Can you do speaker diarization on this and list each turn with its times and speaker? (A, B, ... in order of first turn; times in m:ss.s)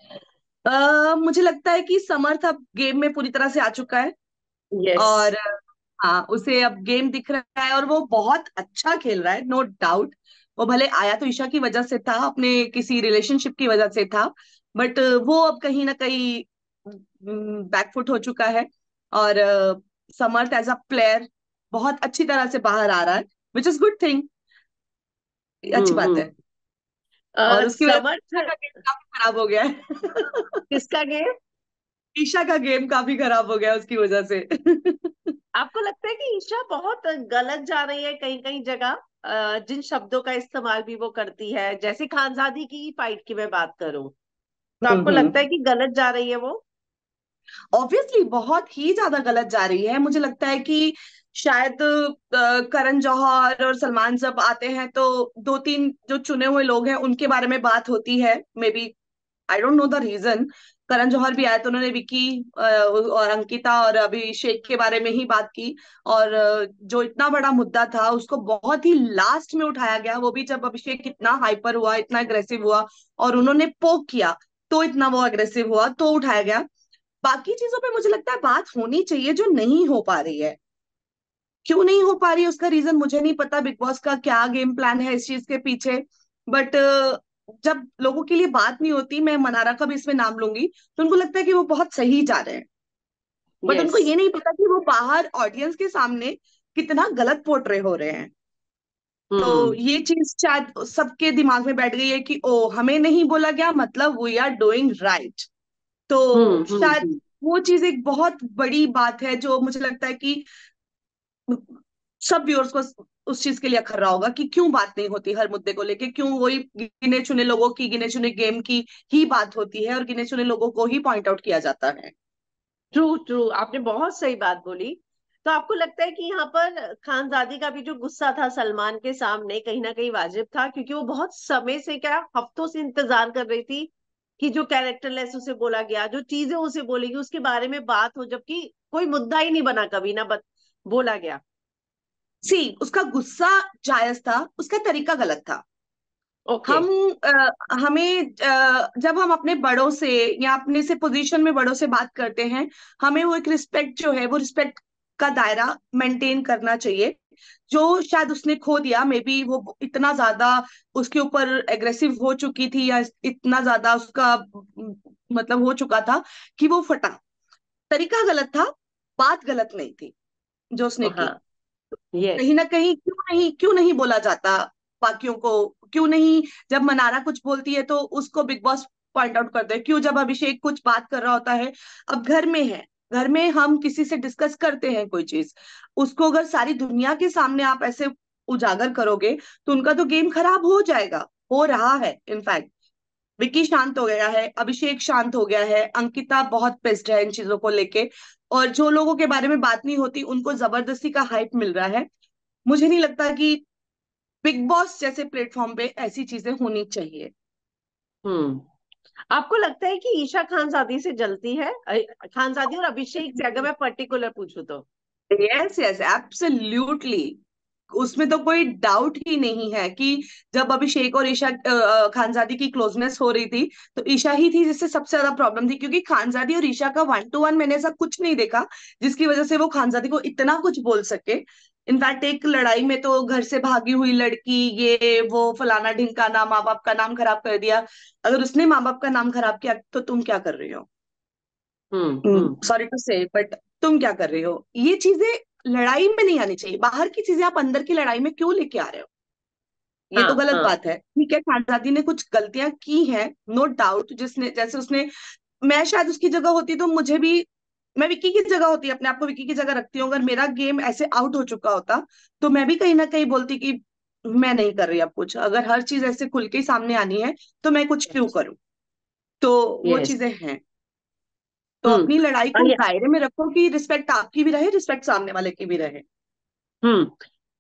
0:00.7-0:04.1 A
0:04.8-0:05.3 B
0:05.0-0:05.4 A
0:06.0-0:24.3 A
0:25.6-0:26.3 A
0:25.7-0:26.3 B
0:27.4-0:28.5 B
0:27.5-0:30.6 A
0:30.7-0:31.3 B
0:32.2-0:35.3 A
0:35.6-0:44.1 B
0:44.8-0:45.3 A
0:44.9-0:46.6 B
0:47.7-0:58.9 A
0:59.5-1:16.6 A
1:17.2-1:20.6 A
1:21.7-1:32.7 A
1:33.6-1:34.1 B
1:33.7-1:38.3 A
1:39.3-1:39.8 B
1:39.4-1:45.5 A
1:46.1-1:50.5 A
1:46.3-1:47.2 B
1:51.5-2:02.1 A
2:02.9-2:21.4 B
2:22.4-2:25.6 A
2:26.5-2:26.9 B
2:26.7-2:37.2 A
2:37.7-2:47.2 A
2:47.9-2:50.1 A
2:50.7-2:51.3 A
2:51.0-2:51.4 B
2:52.1-2:52.4 B
2:52.4-3:12.7 A
3:13.4-3:22.1 A
3:22.7-3:23.6 A
3:24.4-3:27.3 A
3:28.2-3:28.7 B
3:29.3-3:34.8 B
3:33.2-3:33.6 A
3:35.3-3:37.4 A
3:37.9-4:00.9 A
4:01.9-4:02.6 B
4:02.3-4:09.1 A
4:10.1-4:15.1 A
4:10.2-4:10.7 B
4:15.6-4:28.6 A
4:29.4-4:30.6 A
4:29.8-4:30.1 B
4:31.8-4:36.0 A
4:31.9-4:32.8 B
4:36.8-4:37.2 B